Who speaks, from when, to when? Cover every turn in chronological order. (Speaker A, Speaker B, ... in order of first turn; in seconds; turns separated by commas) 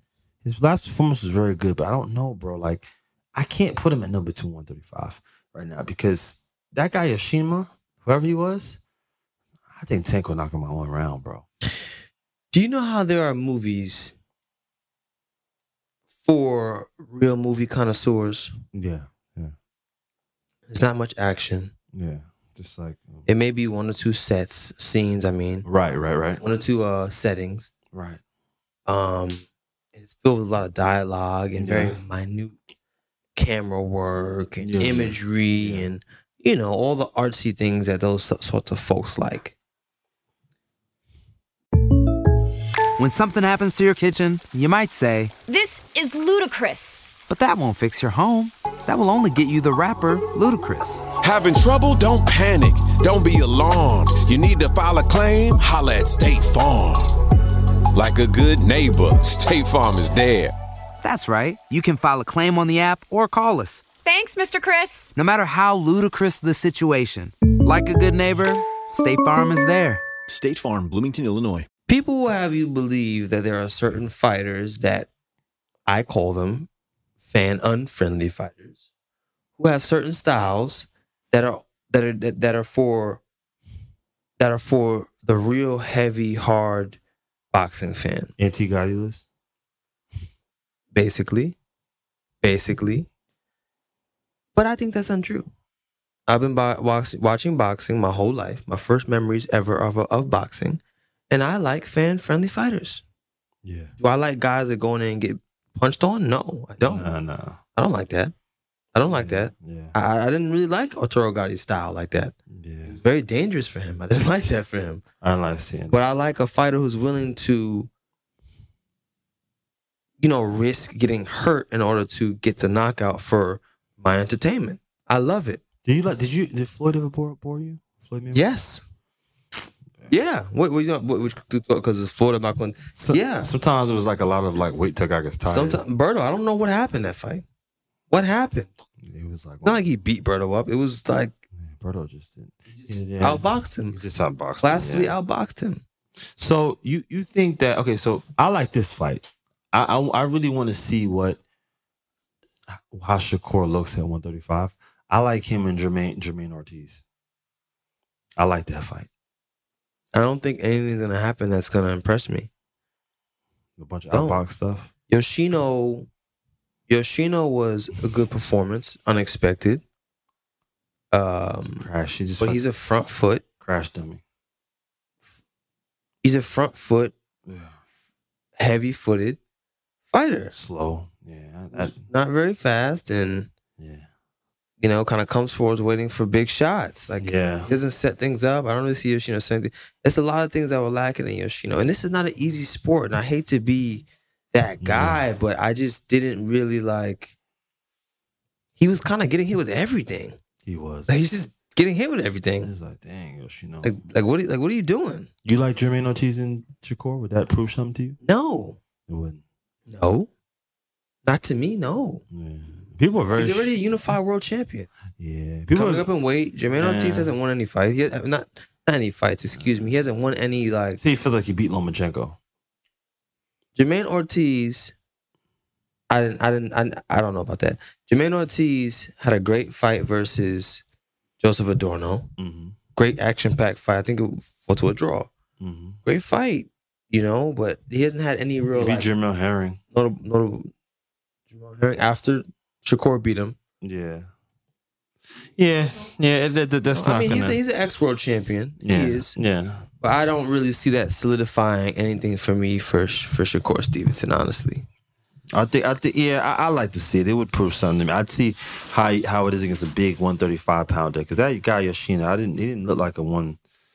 Speaker A: 0.4-8.8, Speaker A: 9.7-11.5, Speaker B: 12.5-14.2, Speaker B: 16.2-18.5, Speaker A: 18.7-19.6, Speaker B: 20.7-21.7, Speaker A: 21.9-23.3, Speaker B: 23.3-25.7, Speaker A: 25.6-26.4, Speaker B: 26.4-27.7, Speaker A: 27.9-28.2, Speaker B: 28.9-32.6, Speaker A: 31.6-32.0, Speaker B: 33.4-39.5, Speaker A: 34.6-35.9, Speaker C: 43.0-45.3, Speaker D: 45.5-47.1, Speaker C: 47.2-51.0, Speaker E: 51.2-57.1, Speaker E: 58.0-60.5, Speaker C: 61.0-63.9, Speaker D: 64.0-65.1, Speaker C: 65.2-70.0, Speaker E: 70.3-71.6, Speaker B: 71.9-75.1, Speaker B: 75.9-76.7, Speaker B: 77.2-78.8, Speaker B: 79.6-83.2, Speaker B: 84.4-87.0, Speaker B: 87.5-88.3, Speaker A: 88.4-89.3, Speaker B: 90.9-91.6, Speaker B: 92.4-93.1, Speaker B: 94.5-95.5, Speaker B: 96.3-103.0, Speaker A: 103.6-103.9, Speaker B: 104.0-107.1, Speaker A: 106.8-107.6, Speaker B: 107.8-108.3, Speaker B: 108.9-112.3, Speaker A: 109.1-110.0, Speaker A: 112.5-113.0, Speaker B: 112.9-115.0, Speaker A: 115.2-116.0, Speaker B: 115.9-117.9, Speaker B: 120.2-125.6, Speaker A: 125.8-128.5, Speaker B: 128.3-128.8, Speaker B: 130.1-133.5, Speaker A: 132.9-135.8, Speaker B: 135.4-137.4, Speaker B: 138.1-138.7, Speaker A: 139.0-139.8, Speaker B: 139.6-141.4, Speaker A: 141.6-145.1, Speaker B: 142.7-144.0, Speaker B: 144.6-145.8, Speaker A: 146.3-151.4, Speaker A: 152.9-157.0, Speaker A: 158.4-159.1, Speaker B: 160.1-162.5, Speaker A: 163.8-164.9, Speaker B: 164.1-164.4, Speaker B: 165.1-166.1, Speaker B: 166.9-169.8, Speaker B: 171.1-171.9, Speaker A: 171.7-172.6, Speaker B: 172.4-173.4, Speaker A: 173.6-174.2, Speaker B: 176.2-177.1, Speaker A: 177.5-177.8, Speaker B: 178.6-179.4, Speaker B: 180.1-180.5, Speaker A: 180.5-182.0, Speaker B: 181.7-183.5, Speaker A: 183.8-184.1, Speaker B: 184.8-197.3, Speaker A: 187.2-187.7, Speaker A: 194.8-195.2, Speaker B: 198.8-200.4, Speaker A: 200.7-201.1, Speaker B: 201.1-202.7, Speaker A: 202.6-204.0, Speaker B: 203.8-205.3, Speaker A: 205.4-208.2, Speaker B: 208.2-208.8, Speaker A: 209.1-209.4, Speaker B: 209.9-210.3, Speaker B: 211.3-212.2, Speaker A: 212.3-213.7, Speaker B: 213.4-214.9, Speaker A: 215.2-216.1, Speaker B: 215.7-221.0, Speaker A: 216.7-217.3, Speaker A: 219.5-219.9, Speaker A: 221.0-222.4, Speaker B: 223.8-224.9, Speaker B: 226.1-230.8, Speaker B: 231.4-232.3, Speaker A: 232.4-232.8, Speaker B: 233.0-235.3, Speaker A: 235.6-236.0, Speaker B: 236.1-239.1, Speaker A: 238.7-239.8, Speaker B: 239.9-240.7, Speaker B: 241.5-243.6, Speaker A: 243.8-244.3, Speaker A: 245.5-247.6, Speaker B: 246.9-249.4, Speaker A: 248.8-249.9, Speaker B: 250.0-254.9, Speaker A: 255.5-263.6